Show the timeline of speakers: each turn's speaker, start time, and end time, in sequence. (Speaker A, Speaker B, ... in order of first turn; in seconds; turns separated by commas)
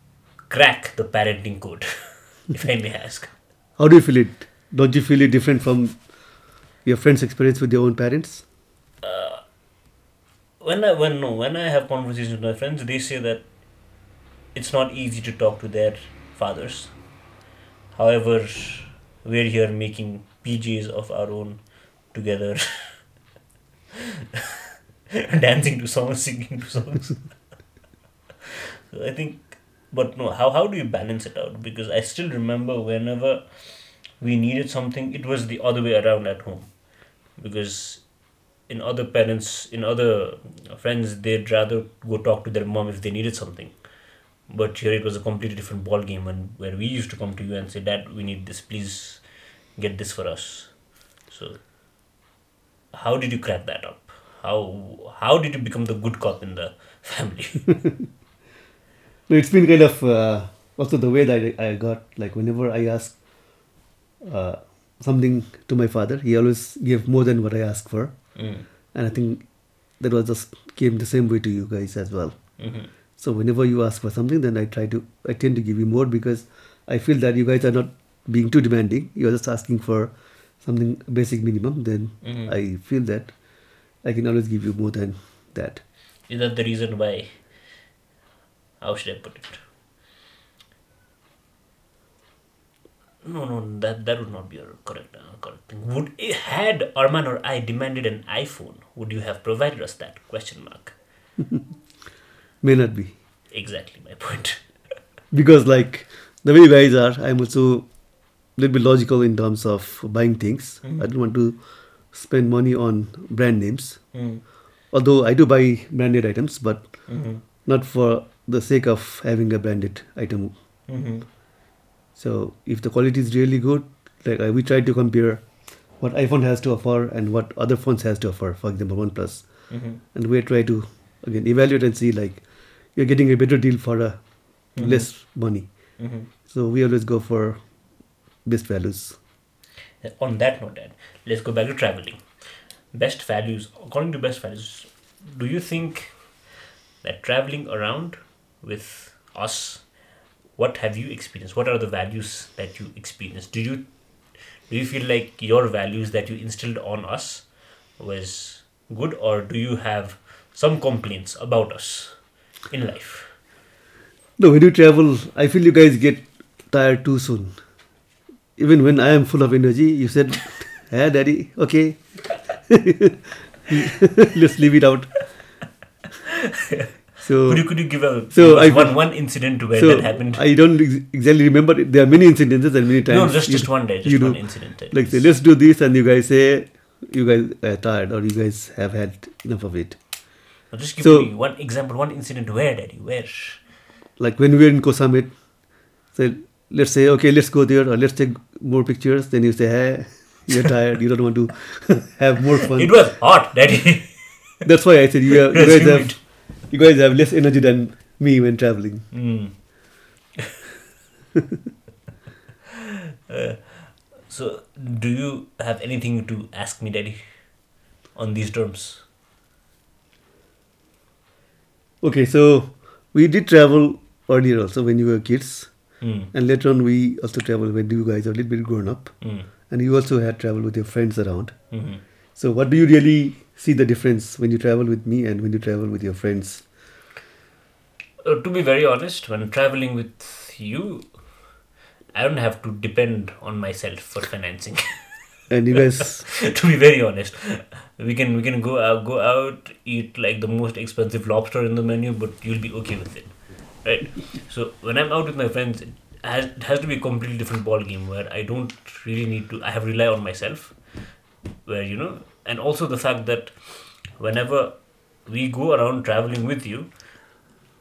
Speaker A: 0.5-3.3, Speaker B: 3.8-8.5, Speaker A: 9.0-9.4, Speaker A: 10.6-13.5, Speaker A: 14.5-17.0, Speaker A: 17.9-23.2, Speaker A: 25.3-27.4, Speaker A: 28.9-43.9, Speaker A: 44.4-51.7, Speaker A: 52.9-57.8, Speaker B: 59.3-85.8, Speaker A: 68.3-68.7, Speaker A: 72.6-72.9, Speaker A: 82.2-82.5, Speaker A: 86.3-87.9, Speaker A: 88.8-89.6, Speaker A: 93.2-101.0, Speaker B: 102.6-103.2, Speaker A: 103.5-104.9, Speaker B: 105.3-120.5, Speaker A: 114.1-114.4, Speaker A: 117.1-117.4, Speaker A: 120.9-121.2, Speaker B: 122.1-139.2, Speaker A: 129.7-130.0, Speaker A: 134.7-135.3, Speaker A: 136.0-136.3, Speaker A: 140.0-163.4, Speaker B: 164.4-167.6, Speaker B: 168.6-175.3, Speaker A: 176.7-180.4, Speaker B: 177.2-190.4, Speaker A: 183.1-185.3, Speaker A: 190.7-193.7, Speaker B: 191.0-191.3, Speaker B: 194.2-203.3, Speaker A: 202.7-204.6, Speaker B: 204.6-209.1, Speaker A: 205.6-206.2, Speaker A: 209.1-210.1, Speaker A: 213.3-219.0, Speaker B: 222.0-236.7, Speaker A: 226.0-226.3, Speaker A: 229.2-229.5, Speaker A: 231.7-232.0, Speaker A: 238.2-245.4, Speaker B: 245.5-246.3, Speaker A: 246.4-267.4